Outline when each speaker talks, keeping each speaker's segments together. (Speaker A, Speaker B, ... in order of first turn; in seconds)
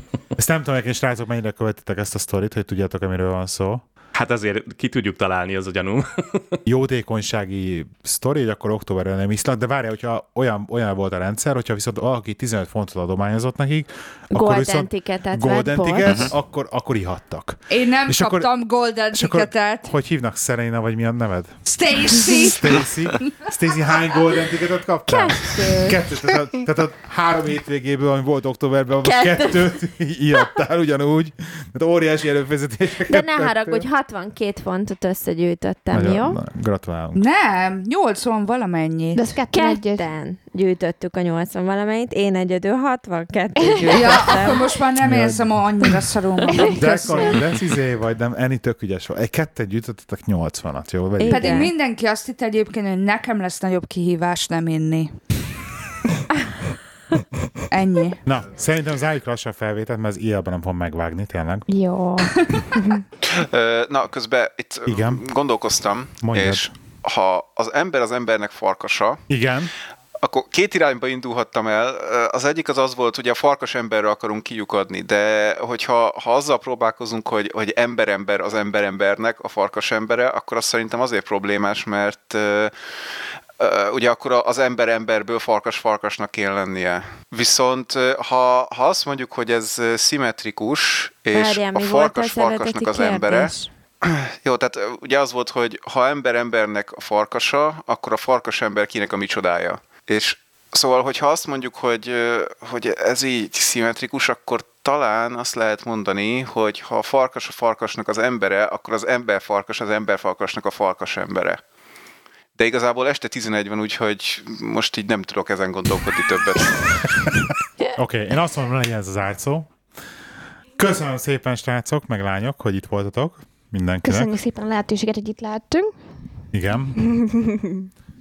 Speaker A: 0.3-3.8, 6.7-18.5, 19.1-33.9, 35.9-37.2, 45.0-45.9, 46.7-51.7, 58.2-61.7, 64.9-65.2, 66.2-66.7, 69.3-69.7, 117.2-119.7, 120.8-124.3, 126.5-127.0
Speaker B: 4.1-6.6
Speaker C: 14.3-16.3, 25.1-26.0, 29.0-29.8, 33.1-36.4, 39.5-44.7, 51.2-51.7, 91.3-93.7
Speaker D: 17.7-19.9, 21.6-22.8, 37.1-39.3, 43.9-47.3, 51.3-55.1, 57.7-58.2, 62.2-62.7
Speaker E: 39.1-40.1, 43.7-44.4, 61.7-63.0, 124.0-125.9, 127.0-127.8
Speaker F: 63.2-69.2, 70.2-82.7, 83.6-111.6, 112.5-117.0